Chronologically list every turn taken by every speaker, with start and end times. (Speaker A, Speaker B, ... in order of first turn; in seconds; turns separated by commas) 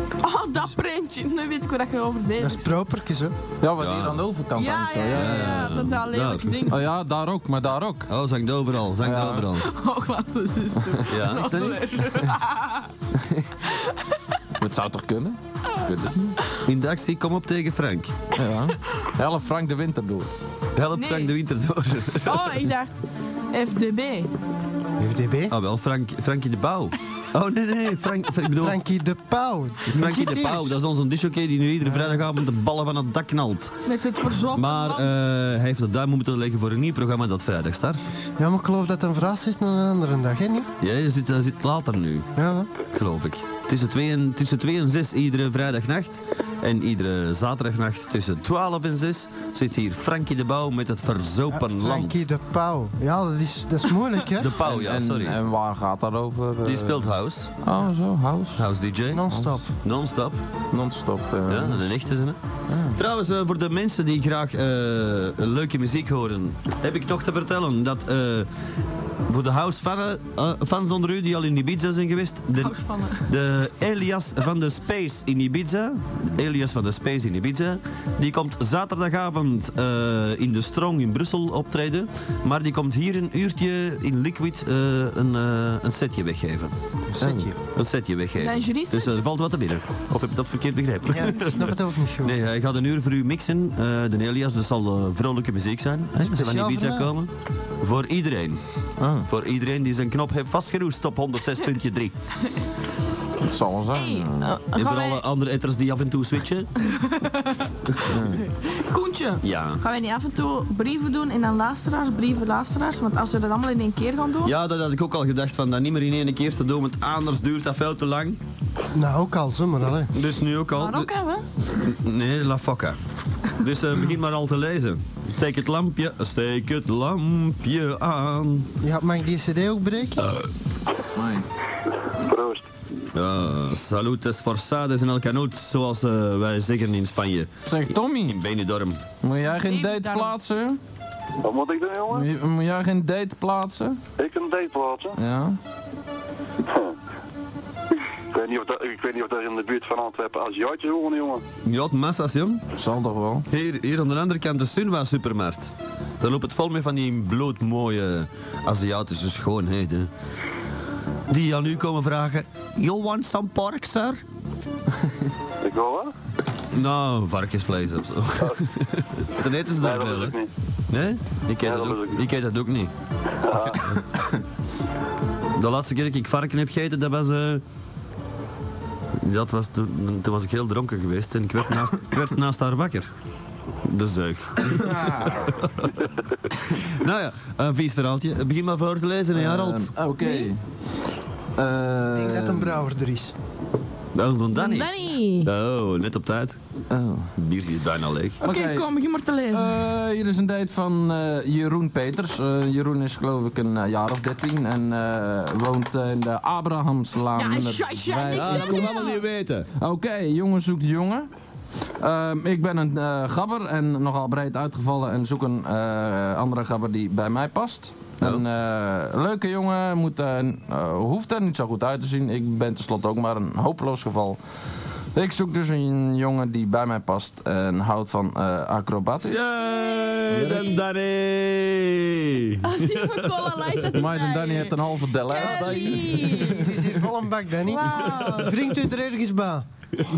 Speaker A: 0.2-2.8, Speaker B: 2.4-3.4, Speaker C: 3.6-5.7, Speaker D: 3.8-4.2, Speaker A: 4.5-6.8, Speaker D: 5.1-6.7, Speaker C: 6.7-8.1, Speaker D: 8.1-9.7, Speaker C: 9.0-9.5, Speaker A: 9.6-12.9, Speaker D: 11.1-11.9, Speaker C: 13.2-13.5, Speaker A: 13.7-14.2, Speaker C: 14.6-16.3, Speaker D: 16.6-18.2, Speaker C: 18.4-20.3, Speaker D: 20.8-22.5, Speaker A: 20.9-21.3, Speaker A: 22.2-24.3, Speaker B: 25.0-25.6, Speaker D: 25.5-28.8, Speaker B: 28.6-30.7, Speaker D: 29.9-33.7, Speaker B: 31.8-32.2, Speaker A: 33.9-35.1, Speaker D: 34.5-38.0, Speaker B: 38.4-40.7, Speaker D: 40.8-42.3, Speaker B: 42.4-42.7, Speaker D: 42.8-52.2, Speaker B: 51.5-54.5, Speaker D: 54.4-55.4, Speaker C: 54.6-57.1, Speaker D: 56.6-57.5, Speaker C: 57.6-58.7, Speaker D: 58.5-60.4, Speaker B: 59.1-59.7, Speaker C: 59.3-59.6, Speaker C: 60.7-61.9, Speaker D: 61.5-62.4, Speaker C: 62.7-63.0, Speaker D: 62.9-68.5, Speaker D: 69.3-86.7, Speaker A: 72.6-73.3, Speaker B: 87.1-87.5, Speaker C: 87.2-87.5, Speaker D: 87.6-98.6, Speaker A: 88.4-89.2, Speaker B: 91.1-92.4, Speaker B: 96.2-97.1, Speaker C: 99.0-99.3, Speaker D: 99.3-102.2, Speaker C: 103.4-104.6, Speaker A: 103.9-105.2, Speaker D: 104.7-106.7, Speaker A: 106.9-107.7, Speaker C: 108.1-108.4, Speaker A: 108.2-114.5, Speaker D: 109.4-109.8, Speaker D: 114.4-118.4, Speaker B: 118.9-120.1, Speaker D: 120.1-121.1, Speaker A: 120.8-121.4, Speaker D: 121.7-123.0, Speaker D: 123.5-128.7, Speaker B: 128.8-130.3, Speaker C: 131.2-131.5, Speaker E: 132.2-132.7, Speaker D: 133.1-139.0, Speaker C: 137.7-138.4, Speaker C: 139.2-140.8, Speaker A: 139.5-140.4, Speaker E: 141.4-142.3, Speaker C: 142.1-144.0, Speaker E: 144.2-145.2, Speaker C: 145.2-145.6, Speaker E: 146.7-147.0, Speaker E: 148.3-151.4, Speaker D: 151.7-152.6, Speaker C: 152.8-153.5, Speaker D: 153.5-160.1, Speaker D: 161.3-164.2, Speaker E: 165.6-166.1, Speaker D: 166.7-170.4, Speaker E: 169.7-170.5, Speaker D: 170.9-172.9, Speaker E: 171.6-172.2, Speaker E: 173.5-173.8, Speaker D: 173.5-173.9, Speaker D: 175.6-177.6, Speaker D: 179.2-183.1, Speaker D: 183.8-185.9, Speaker C: 184.8-185.5, Speaker D: 186.7-189.9, Speaker C: 189.3-190.6, Speaker A: 190.2-190.5, Speaker C: 191.6-192.8, Speaker B: 192.1-193.3, Speaker D: 194.1-196.6, Speaker A: 194.5-195.5, Speaker C: 196.9-197.3, Speaker D: 197.4-198.4, Speaker C: 198.4-198.9, Speaker A: 198.4-199.7, Speaker C: 199.5-209.0, Speaker A: 207.4-209.2, Speaker D: 208.3-209.7, Speaker C: 209.8-211.3, Speaker C: 212.0-224.4, Speaker D: 218.2-218.5, Speaker C: 225.2-229.5, Speaker D: 229.3-233.8, Speaker C: 230.3-230.7, Speaker A: 232.6-236.7, Speaker C: 233.9-236.9, Speaker B: 235.7-239.7, Speaker A: 237.7-238.6